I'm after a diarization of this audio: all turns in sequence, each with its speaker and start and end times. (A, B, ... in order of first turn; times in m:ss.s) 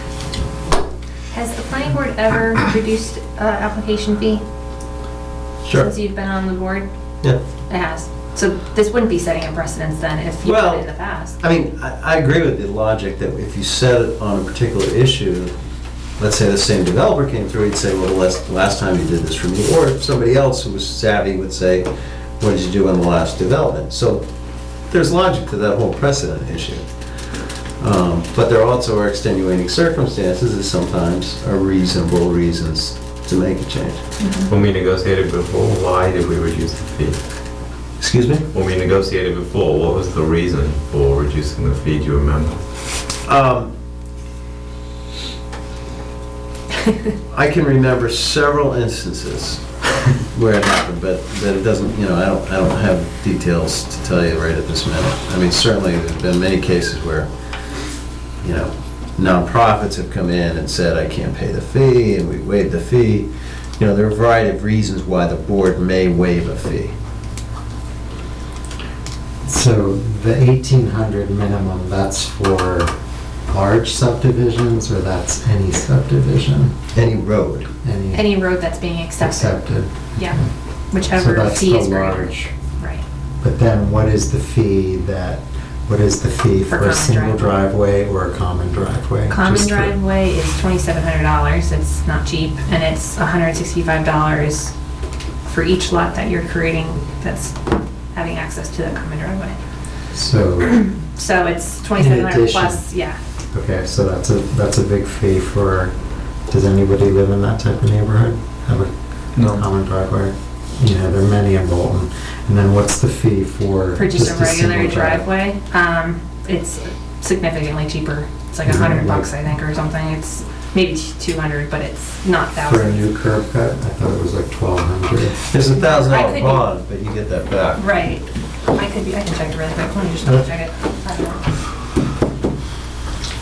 0:01.3-0:04.4 A
0:05.6-0:05.9 B
0:05.7-0:06.9 A
0:07.7-0:11.4 A
0:10.4-0:15.6 B
0:16.2-0:21.9 B
0:22.4-0:24.2 B
0:24.9-0:26.8 B
0:27.8-0:34.0 B
0:34.2-0:34.5 A
0:34.5-0:37.2 C
0:38.0-0:38.5 B
0:38.5-0:42.6 C
0:43.3-0:43.7 B
0:47.3-0:49.6 B
0:50.3-0:57.3 B
0:58.4-1:06.9 B
1:09.5-1:12.9 D
1:13.5-1:16.8 D
1:16.9-1:17.7 B
1:17.8-1:18.5 D
1:18.1-1:19.6 A
1:19.2-1:20.5 D
1:20.9-1:23.0 A
1:21.1-1:22.5 D
1:23.4-1:30.0 D
1:26.7-1:27.6 A
1:29.3-1:34.7 A
1:35.4-1:39.5 A
1:40.1-1:40.8 D
1:40.6-1:43.2 A
1:42.0-1:42.8 D
1:43.5-1:45.9 D
1:46.5-1:55.3 D
1:54.0-2:03.1 A
1:58.6-1:59.3 D
2:02.6-2:05.4 D
2:05.5-2:07.8 B
2:05.7-2:06.6 A
2:07.8-2:11.4 A